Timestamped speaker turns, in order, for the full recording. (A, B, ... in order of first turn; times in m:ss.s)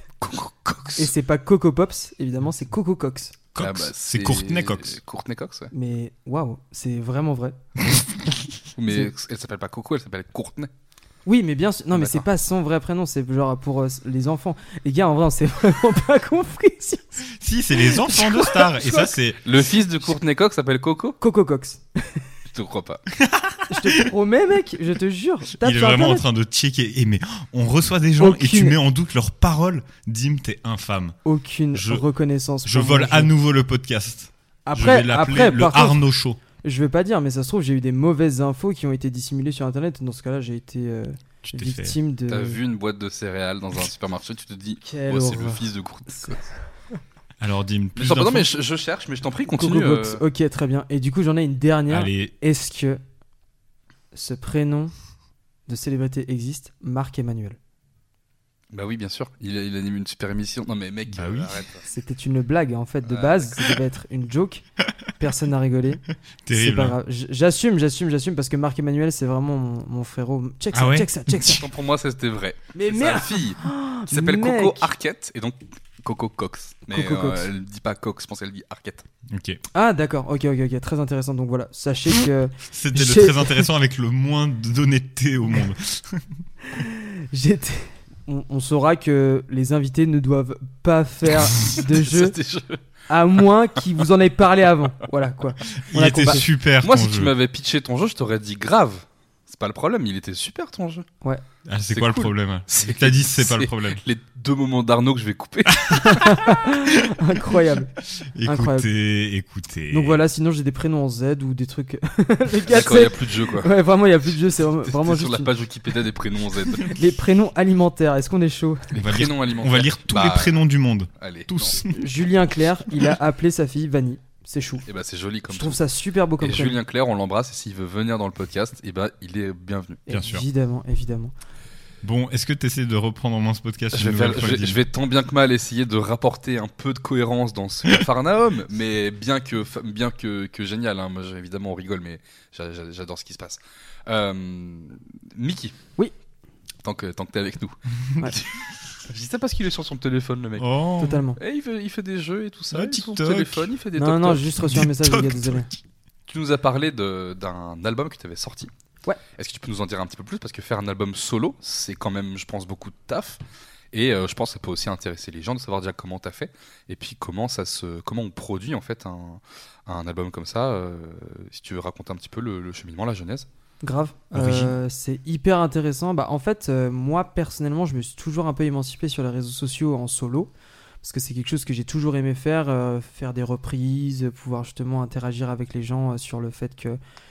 0:00.2-0:01.0 A
0:01.0-0:03.3 B
0:03.5-0:05.0 C
0:03.6-0:05.7 A
0:05.7-0:07.6 B
0:08.7-0:10.7 A
0:11.2-0:19.1 B
0:11.9-0:12.2 A
0:17.3-0:19.4 C
0:19.4-0:21.2 A
0:21.2-0:22.2 B
0:22.5-0:23.0 A
0:23.2-0:24.1 C
0:23.7-0:26.2 B
0:25.6-0:31.2 C
0:28.2-0:28.8 B
0:31.2-0:33.3 B
0:31.7-0:32.0 C
0:32.6-0:36.4 C
0:34.6-0:36.0 B
0:36.6-0:42.6 B
0:41.4-0:42.0 C
0:42.3-0:46.5 A
0:44.8-0:46.4 B
0:47.4-0:48.5 C
0:48.0-0:50.2 A
0:49.6-0:53.0 B
0:51.9-0:52.3 C
0:54.1-0:54.9 B
0:55.7-0:57.6 B
0:58.7-1:01.8 A
1:01.1-1:01.6 C
1:01.8-1:04.6 B
1:03.0-1:03.6 A
1:05.2-1:11.6 B
1:06.4-1:07.0 C
1:10.7-1:11.6 C
1:11.5-1:19.0 A
1:12.7-1:14.9 B
1:16.9-1:17.5 B
1:19.3-1:19.6 C
1:19.7-1:23.7 B
1:22.7-1:26.4 C
1:26.7-1:32.4 B
1:31.8-1:32.8 A
1:33.1-1:36.4 B
1:35.9-1:37.3 C
1:36.8-1:41.0 A
1:41.6-1:44.0 C
1:41.9-1:46.0 A
1:45.8-1:46.2 C
1:45.9-1:47.9 B
1:48.2-1:50.2 C
1:48.4-1:48.9 B
1:49.9-1:55.5 B
1:52.7-1:53.7 A
1:54.8-1:57.0 A
1:56.8-1:58.8 B
1:58.9-2:00.6 A
1:58.9-2:02.0 C
2:01.2-2:01.8 A
2:01.9-2:04.8 B
2:04.9-2:05.8 A
2:05.5-2:06.8 B
2:06.4-2:10.0 A
2:10.1-2:11.3 B
2:10.1-2:10.4 C
2:12.0-2:14.8 C
2:13.9-2:25.8 A
2:26.8-2:30.7 A
2:30.6-2:31.2 C
2:31.0-2:31.4 B
2:31.4-2:34.5 A
2:32.7-2:33.7 C
2:34.0-2:35.7 B
2:34.6-2:35.8 C
2:36.3-2:38.7 A
2:39.4-2:43.4 A
2:43.9-2:53.4 A
2:53.8-3:00.5 B
2:54.3-2:54.7 C
3:01.0-3:07.0 B